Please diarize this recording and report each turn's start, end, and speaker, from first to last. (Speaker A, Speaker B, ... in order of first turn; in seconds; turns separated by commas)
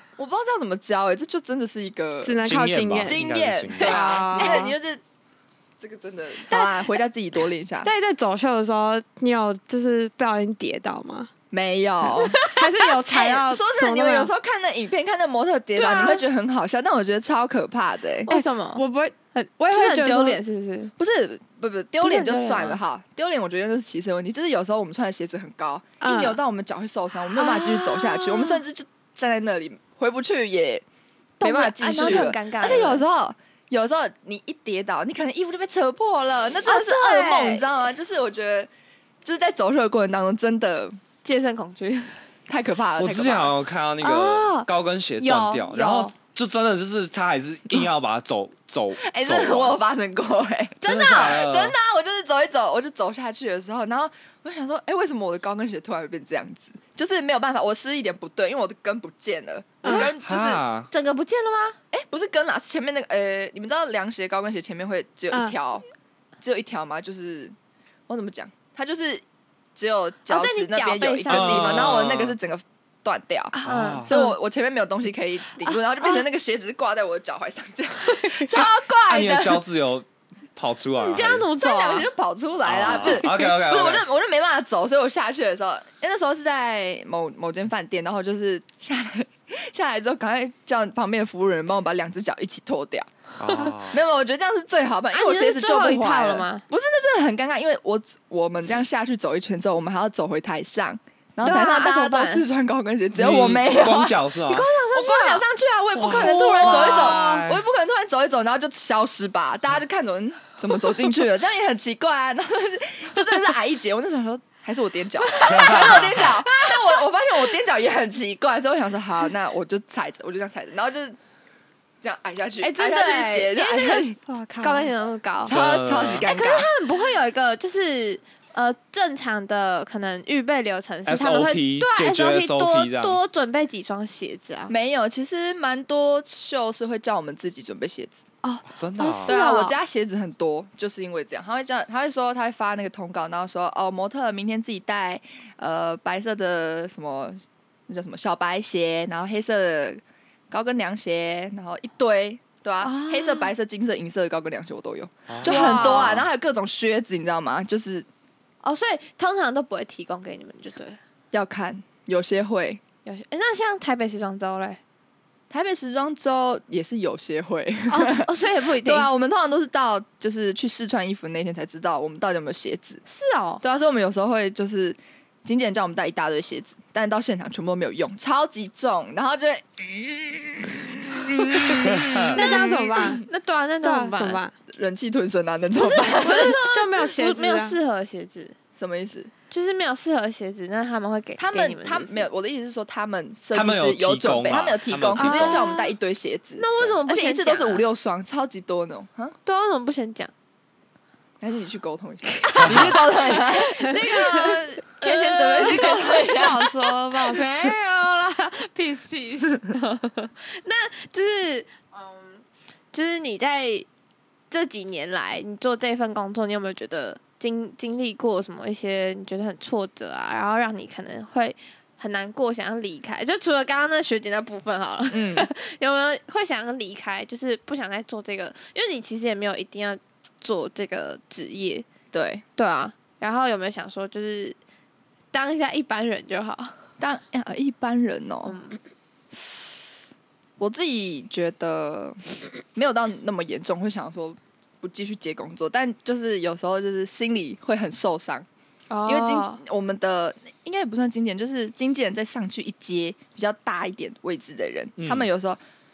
Speaker A: 0.2-2.5, Speaker B: 2.2-3.2, Speaker C: 2.4-4.0, Speaker A: 3.0-5.0, Speaker B: 3.8-4.7, Speaker D: 3.9-4.7, Speaker A: 5.8-7.9, Speaker B: 7.8-11.3, Speaker A: 11.5-12.5, Speaker D: 12.2-12.6, Speaker B: 12.4-14.3, Speaker A: 13.0-18.3, Speaker D: 15.8-16.2, Speaker D: 18.3-18.8, Speaker B: 18.3-20.4, Speaker D: 19.4-20.9, Speaker A: 21.0-30.9, Speaker D: 22.0-22.8, Speaker B: 26.0-26.4, Speaker D: 27.4-28.6, Speaker D: 31.4-33.0, Speaker A: 31.4-38.7, Speaker D: 36.7-37.6, Speaker A: 39.2-41.0, Speaker D: 41.2-42.2, Speaker A: 42.5-43.5, Speaker C: 43.0-49.8, Speaker D: 44.0-44.7, Speaker D: 45.2-46.1, Speaker A: 49.0-60.6, Speaker C: 50.8-51.8, Speaker D: 50.8-51.4, Speaker B: 59.8-60.1, Speaker C: 60.2-60.9, Speaker D: 60.9-61.8, Speaker A: 61.9-65.8, Speaker A: 66.4-67.5, Speaker A: 68.1-69.2, Speaker A: 69.8-79.6, Speaker D: 70.3-72.0, Speaker C: 71.3-72.3, Speaker D: 73.5-74.3, Speaker C: 73.7-74.1, Speaker C: 78.6-81.5, Speaker D: 81.0-82.1, Speaker A: 81.6-121.2, Speaker C: 82.7-84.0, Speaker D: 82.9-83.3, Speaker C: 93.4-94.0, Speaker D: 95.1-96.6, Speaker D: 101.4-102.4, Speaker C: 103.2-104.7, Speaker D: 104.5-105.4, Speaker C: 106.0-107.6, Speaker D: 106.0-107.4, Speaker D: 115.3-117.0, Speaker C: 115.5-116.3, Speaker A: 122.0-124.2, Speaker D: 122.6-134.7, Speaker B: 124.3-124.9, Speaker A: 125.5-126.7, Speaker C: 125.5-126.2, Speaker C: 131.1-133.2, Speaker A: 134.7-138.2, Speaker D: 138.4-139.8, Speaker C: 138.7-139.3, Speaker A: 139.2-158.1, Speaker D: 152.8-153.5, Speaker C: 155.3-156.2, Speaker D: 155.4-156.3, Speaker D: 158.6-161.0, Speaker A: 161.3-162.8, Speaker D: 163.1-164.8, Speaker A: 165.5-173.0, Speaker D: 167.9-169.1, Speaker D: 173.1-173.6, Speaker A: 173.6-183.2, Speaker D: 181.5-184.4, Speaker C: 181.9-182.2, Speaker B: 182.3-183.2, Speaker B: 183.8-184.5, Speaker A: 184.7-186.6, Speaker D: 185.8-188.6, Speaker B: 186.2-187.8, Speaker A: 188.8-189.3, Speaker D: 189.5-192.3, Speaker A: 191.4-199.4, Speaker C: 193.5-195.6, Speaker D: 195.2-195.9, Speaker D: 196.6-197.8, Speaker D: 199.4-200.3, Speaker A: 201.4-207.4, Speaker D: 202.5-213.9, Speaker C: 202.6-202.9, Speaker D: 214.5-231.9, Speaker A: 225.1-225.5, Speaker A: 232.1-232.4, Speaker D: 232.6-234.6, Speaker D: 235.3-236.8, Speaker A: 237.0-238.6, Speaker D: 238.5-238.8, Speaker A: 240.6-242.2, Speaker A: 242.8-248.5, Speaker D: 248.9-249.6, Speaker A: 249.1-255.6, Speaker C: 255.0-255.3